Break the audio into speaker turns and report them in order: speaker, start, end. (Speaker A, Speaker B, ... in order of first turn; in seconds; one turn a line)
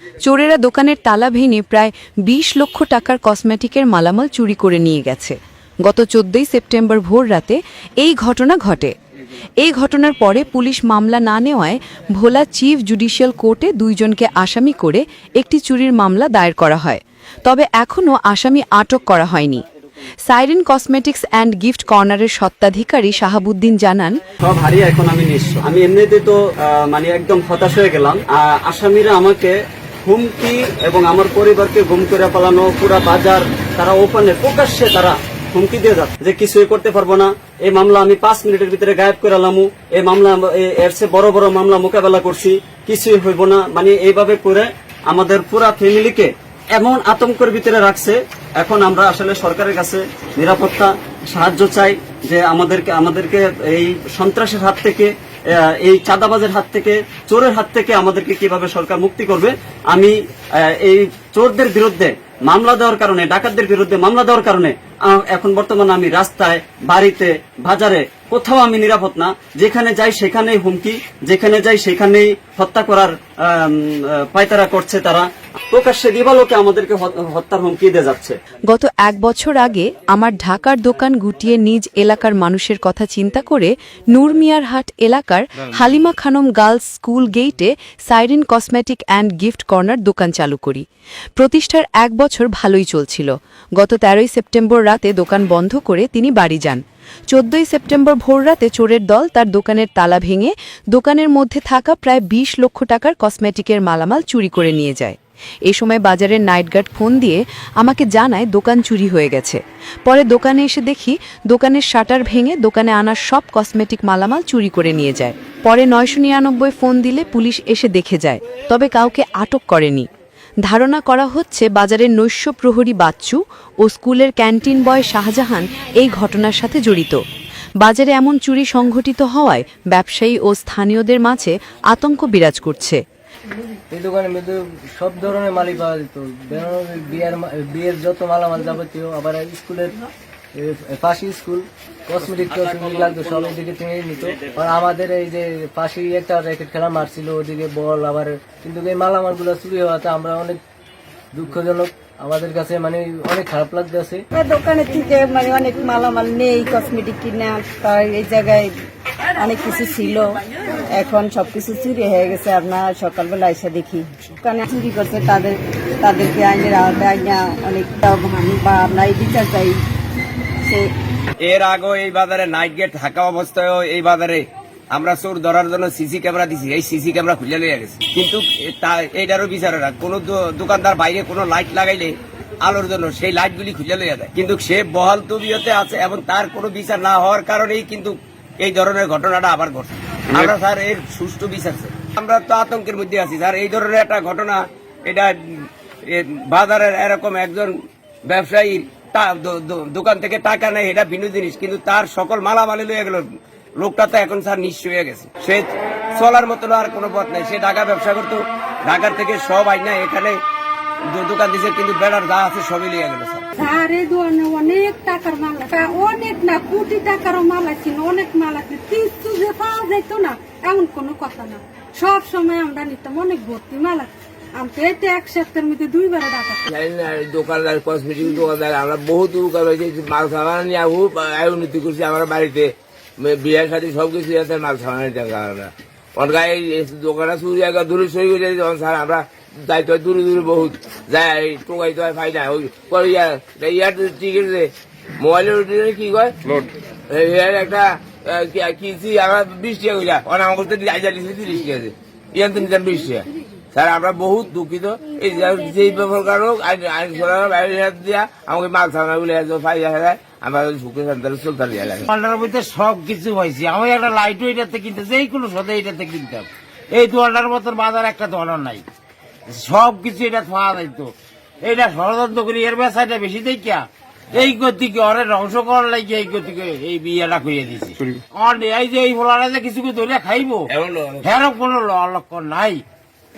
Speaker A: 0.2-8.9
Speaker A: 9.6-19.6
Speaker A: 20.3-24.2
Speaker B: 24.4-78.4
Speaker A: 78.7-90.8
Speaker A: 91.4-120.1
Speaker A: 120.6-127.2
Speaker A: 127.8-133.0
Speaker C: 133.9-140.0
Speaker C: 140.5-150.6
Speaker C: 151.3-154.2
Speaker D: 154.3-158.7
Speaker D: 159.4-160.3
Speaker D: 160.9-169.8
Speaker D: 170.6-170.9
Speaker E: 171.4-195.3
Speaker E: 196.1-197.7
Speaker E: 198.3-203.2
Speaker E: 203.8-210.4
Speaker E: 211.1-213.4
Speaker F: 213.6-226.7
Speaker G: 226.7-246.4
Speaker G: 247.1-262.1
Speaker H: 262.1-268.8
Speaker H: 269.5-280.7
Speaker G: 280.7-281.2
Speaker H: 281.2-282.8